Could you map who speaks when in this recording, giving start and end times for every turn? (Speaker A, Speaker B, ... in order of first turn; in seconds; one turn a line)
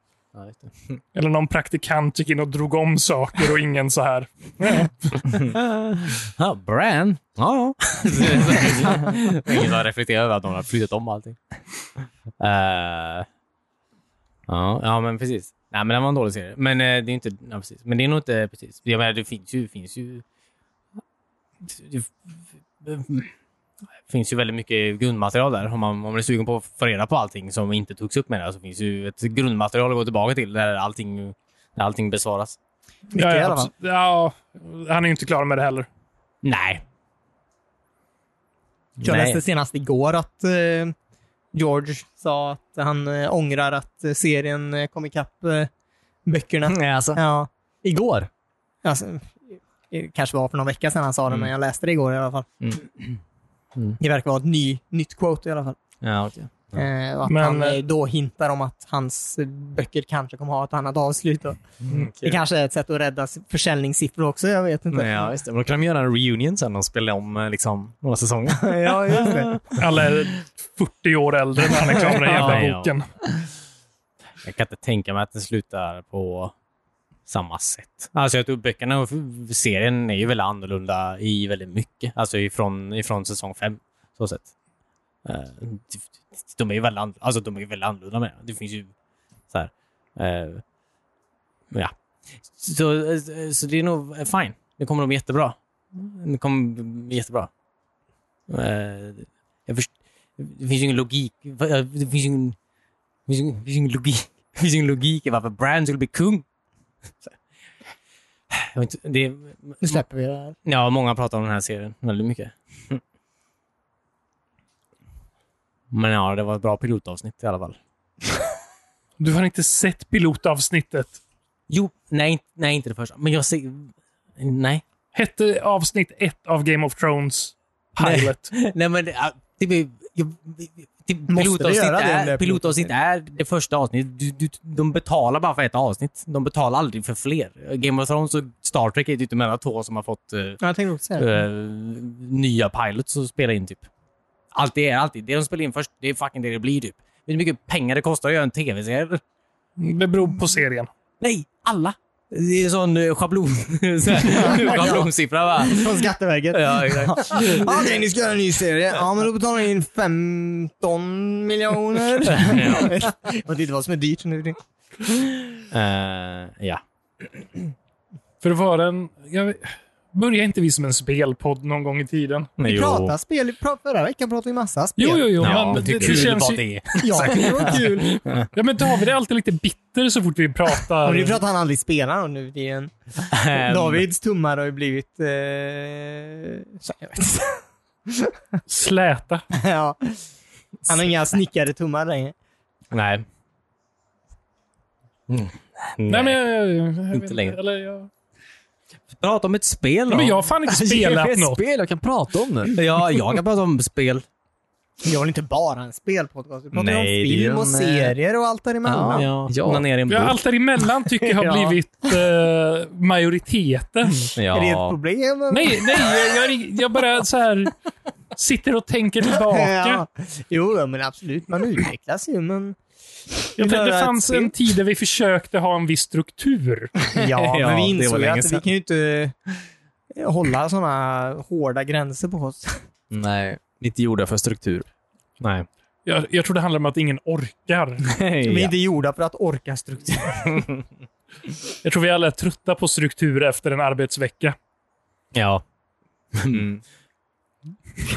Speaker A: 0.3-0.7
Speaker B: 1.1-5.2
Speaker A: 5.4-11.4
Speaker A: 12.4-13.3
Speaker A: 14.5-20.2
Speaker A: 21.6-22.1
Speaker A: 22.8-23.3
Speaker A: 24.1-32.6
Speaker C: 33.1-33.7
Speaker B: 33.1-35.9
Speaker A: 36.4-36.8
Speaker A: 39.0-39.4
Speaker C: 39.0-40.9
Speaker C: 41.5-45.7
Speaker C: 46.2-47.5
Speaker D: 46.7-47.2
Speaker D: 47.8-48.3
Speaker C: 48.8-52.5
Speaker C: 54.0-55.8
Speaker A: 56.0-56.8
Speaker C: 56.7-61.6
Speaker B: 57.2-57.8
Speaker C: 62.2-65.3
Speaker D: 65.0-68.5
Speaker A: 65.1-65.4
Speaker A: 68.4-69.8
Speaker C: 68.5-69.6
Speaker B: 69.8-73.0
Speaker A: 72.2-72.9
Speaker A: 74.4-76.5
Speaker A: 77.3-84.5
Speaker A: 85.2-88.9
Speaker A: 89.5-90.6
Speaker A: 92.5-97.5
Speaker A: 98.5-102.5
Speaker A: 103.3-106.4
Speaker A: 108.5-110.0
Speaker C: 109.8-110.5
Speaker A: 110.6-113.0
Speaker A: 115.9-117.8
Speaker B: 119.2-121.2
Speaker A: 121.7-124.8
Speaker B: 125.1-128.5
Speaker A: 128.0-140.6
Speaker C: 131.3-132.9
Speaker C: 140.6-141.4
Speaker A: 141.2-143.9
Speaker A: 144.5-149.2
Speaker B: 149.8-150.9
Speaker A: 151.2-157.7
Speaker C: 154.2-164.6
Speaker A: 162.4-162.9
Speaker A: 165.7-166.8
Speaker B: 168.4-172.5
Speaker C: 172.6-176.2
Speaker D: 172.6-173.1
Speaker B: 175.0-176.6
Speaker A: 175.4-178.5
Speaker C: 177.0-178.2
Speaker B: 178.5-181.4
Speaker C: 181.0-188.3
Speaker A: 183.3-184.0
Speaker B: 188.7-189.4
Speaker C: 189.5-190.2
Speaker C: 190.8-192.3
Speaker A: 192.9-193.2
Speaker A: 195.3-196.4
Speaker B: 196.1-198.1
Speaker A: 197.1-197.6
Speaker A: 199.1-200.4
Speaker B: 200.1-201.6
Speaker D: 200.6-202.8
Speaker A: 202.7-204.2
Speaker C: 205.0-209.3
Speaker D: 206.7-208.1
Speaker D: 208.8-209.8
Speaker A: 209.1-210.4
Speaker B: 210.1-214.3
Speaker C: 211.3-211.8
Speaker D: 214.4-214.9
Speaker C: 214.5-216.1
Speaker B: 215.5-217.7
Speaker B: 218.3-220.0
Speaker C: 219.4-222.8
Speaker C: 223.4-224.5
Speaker B: 223.6-227.0
Speaker C: 227.1-229.3
Speaker D: 227.2-228.6
Speaker C: 230.2-232.8
Speaker D: 233.1-234.9
Speaker A: 235.4-235.7
Speaker B: 236.1-238.1
Speaker D: 238.0-238.7
Speaker C: 238.4-240.6
Speaker B: 241.8-244.5
Speaker A: 245.3-245.6
Speaker A: 246.3-246.7
Speaker D: 246.5-246.8